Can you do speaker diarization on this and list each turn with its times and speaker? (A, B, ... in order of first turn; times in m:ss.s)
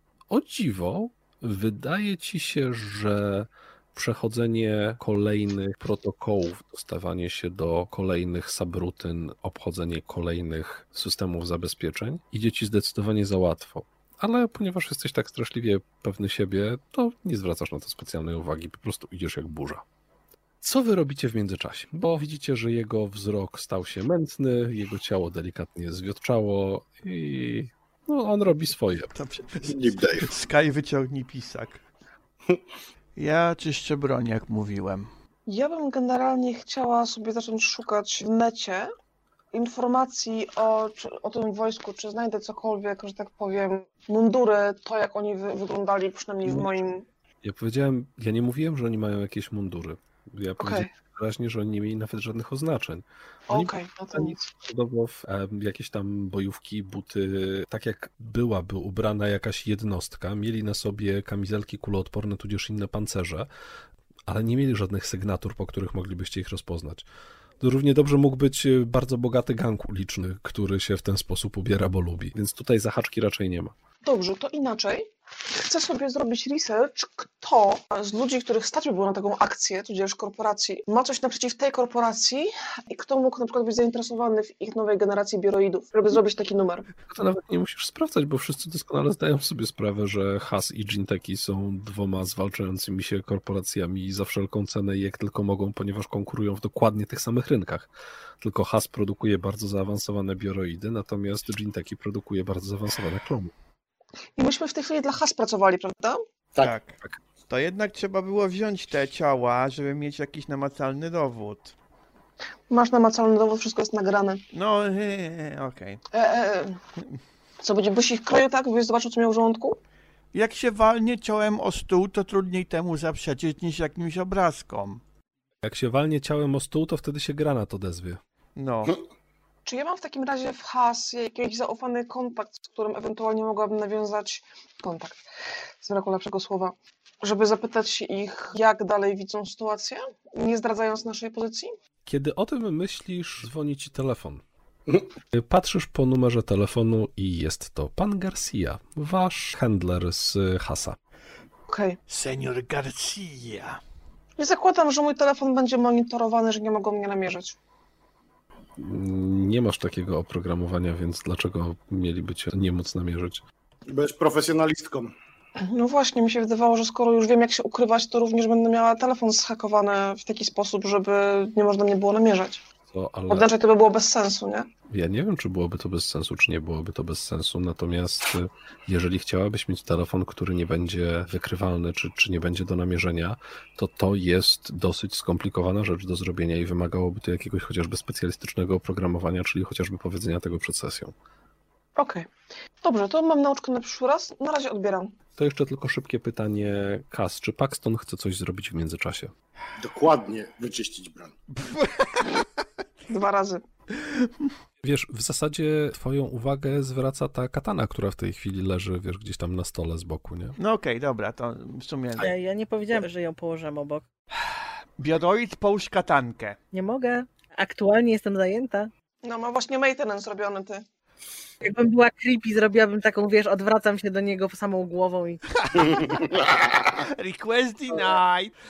0:00.3-0:19.8 A
0:20.6-0:29.1 A
0:29.1-0:31.8 B
0:29.6-0:30.3 C
0:33.2-0:35.1 B
0:35.5-0:38.9 D
0:39.5-0:47.0 D
0:47.4-1:03.5 A
0:50.6-0:50.9 D
0:53.5-0:54.4 D
1:04.3-1:07.0 A
1:07.6-1:13.7 A
1:14.0-1:26.9 D
1:27.1-1:37.9 A
1:38.4-1:43.5 A
1:44.4-1:46.2 D
1:46.6-1:47.0 B
1:47.5-1:51.7 B
1:52.7-1:54.4 D
1:54.5-1:56.0 B
1:56.1-1:56.8 D
1:57.6-1:59.8 D
2:00.3-2:05.0 B
2:05.6-2:08.2 A
2:08.6-2:09.0 B
2:09.6-2:15.2 D
2:15.8-2:21.7 D
2:22.0-2:24.4 A
2:25.3-2:31.0 A
2:31.7-2:32.0 D
2:32.1-2:33.8 B
2:34.4-2:37.6 D
2:38.8-2:43.4 A
2:43.9-2:45.1 C
2:45.6-2:52.6 D
2:52.9-2:53.5 A
2:53.3-2:54.7 D
2:54.9-3:11.1 A
3:12.0-3:12.3 D
3:12.8-3:15.1 D
3:15.4-3:19.3 A
3:19.8-3:21.3 C
3:21.5-3:22.4 B
3:23.1-3:23.6 D
3:24.0-3:24.3 B
3:24.8-3:30.6 A
3:30.6-3:32.3 B
3:32.1-3:34.0 E
3:34.5-3:36.6 B
3:36.7-3:38.9 E
3:39.2-3:40.8 D
3:41.6-3:46.1 E
3:45.6-3:48.5 B